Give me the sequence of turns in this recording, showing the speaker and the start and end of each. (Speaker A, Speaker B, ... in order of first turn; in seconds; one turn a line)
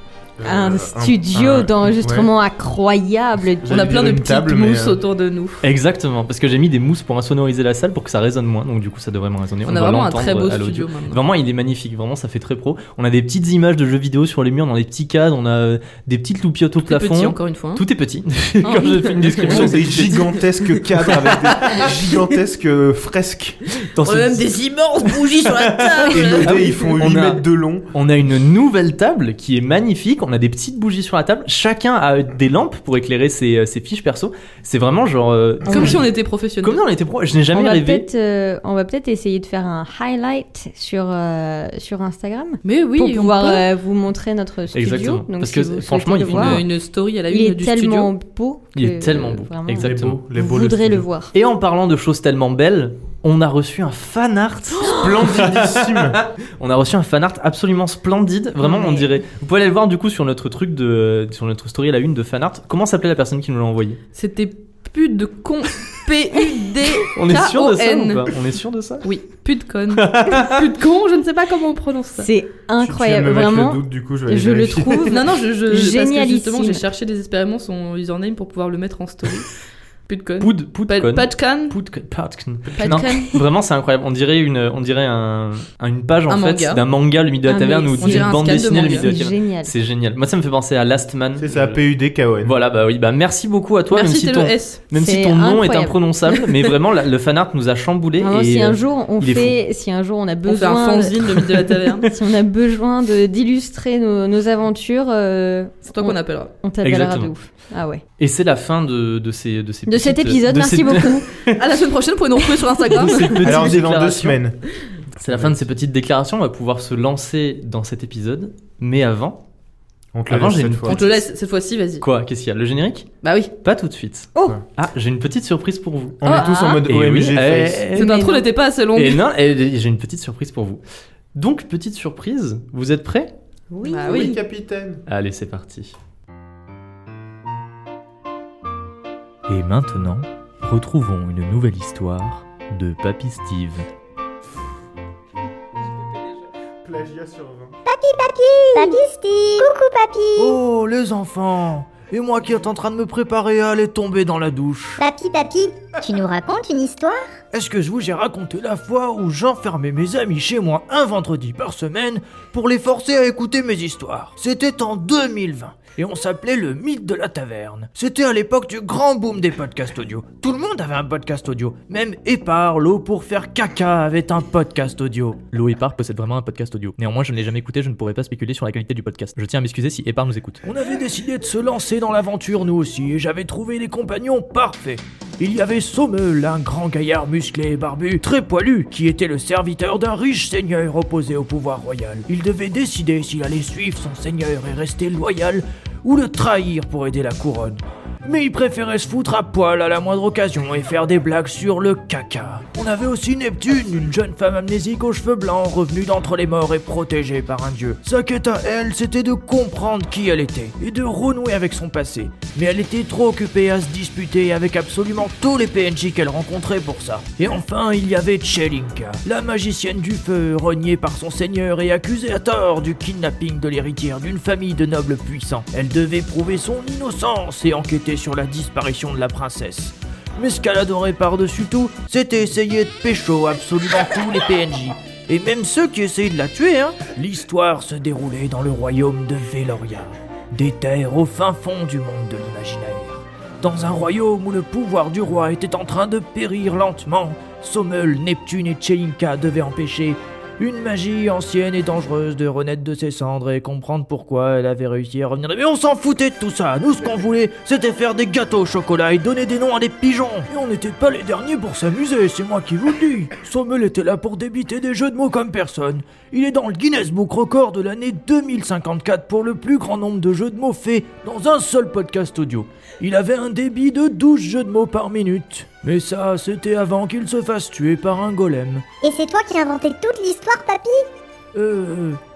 Speaker A: 0.4-2.3
Speaker B: 0.4-3.8
Speaker A: 3.6-5.0
Speaker C: 3.6-5.6
Speaker D: 5.6-20.3
Speaker C: 9.6-11.2
Speaker C: 16.8-17.8
Speaker C: 18.6-22.2
Speaker A: 19.3-23.6
Speaker D: 23.8-24.5
Speaker C: 24.0-26.9
Speaker D: 25.1-36.1
Speaker A: 26.1-27.9
Speaker C: 35.7-36.8
Speaker A: 35.7-36.0
Speaker D: 36.6-38.1
Speaker B: 37.5-46.6
Speaker C: 42.6-43.6
Speaker D: 44.7-46.6
Speaker C: 46.2-48.1
Speaker B: 47.3-51.3
Speaker D: 48.7-50.2
Speaker A: 49.7-51.1
Speaker D: 51.3-64.0
Speaker A: 54.8-56.2
Speaker C: 64.1-68.3
Speaker D: 67.0-69.1
Speaker C: 69.0-72.3
Speaker D: 69.9-70.6
Speaker B: 72.2-76.8
Speaker A: 72.8-75.2
Speaker C: 75.1-81.7
Speaker D: 80.4-91.8
Speaker C: 82.8-83.4
Speaker C: 86.3-86.8
Speaker B: 87.5-89.7
Speaker C: 88.0-89.1
Speaker A: 91.4-92.5
Speaker D: 92.4-99.6
Speaker C: 93.9-94.8
Speaker B: 94.9-96.0
Speaker B: 98.2-108.0
Speaker C: 100.5-102.1
Speaker C: 105.9-106.5
Speaker D: 106.8-107.3
Speaker D: 108.2-111.6
Speaker B: 109.9-111.3
Speaker C: 111.5-113.7
Speaker D: 112.8-114.4
Speaker A: 113.3-114.6
Speaker D: 115.2-119.4
Speaker A: 115.2-115.5
Speaker A: 120.1-121.0
Speaker D: 120.3-121.2
Speaker C: 120.8-122.0
Speaker D: 122.0-123.1
Speaker C: 123.2-123.5
Speaker D: 123.6-128.2
Speaker A: 126.2-127.9
Speaker C: 126.2-126.5
Speaker B: 126.3-126.8
Speaker C: 127.9-129.2
Speaker B: 128.0-128.5
Speaker D: 128.9-130.8
Speaker D: 131.3-133.3
Speaker B: 133.7-134.4
Speaker C: 133.8-134.3
Speaker A: 134.0-135.0
Speaker D: 135.1-135.9
Speaker D: 139.5-143.9
Speaker A: 146.8-147.8
Speaker E: 147.8-150.6
Speaker F: 150.4-155.0
Speaker E: 155.0-157.3
Speaker F: 157.5-175.4
Speaker D: 175.5-180.6
Speaker F: 180.6-278.8
Speaker E: 279.0-281.0
Speaker F: 281.5-282.2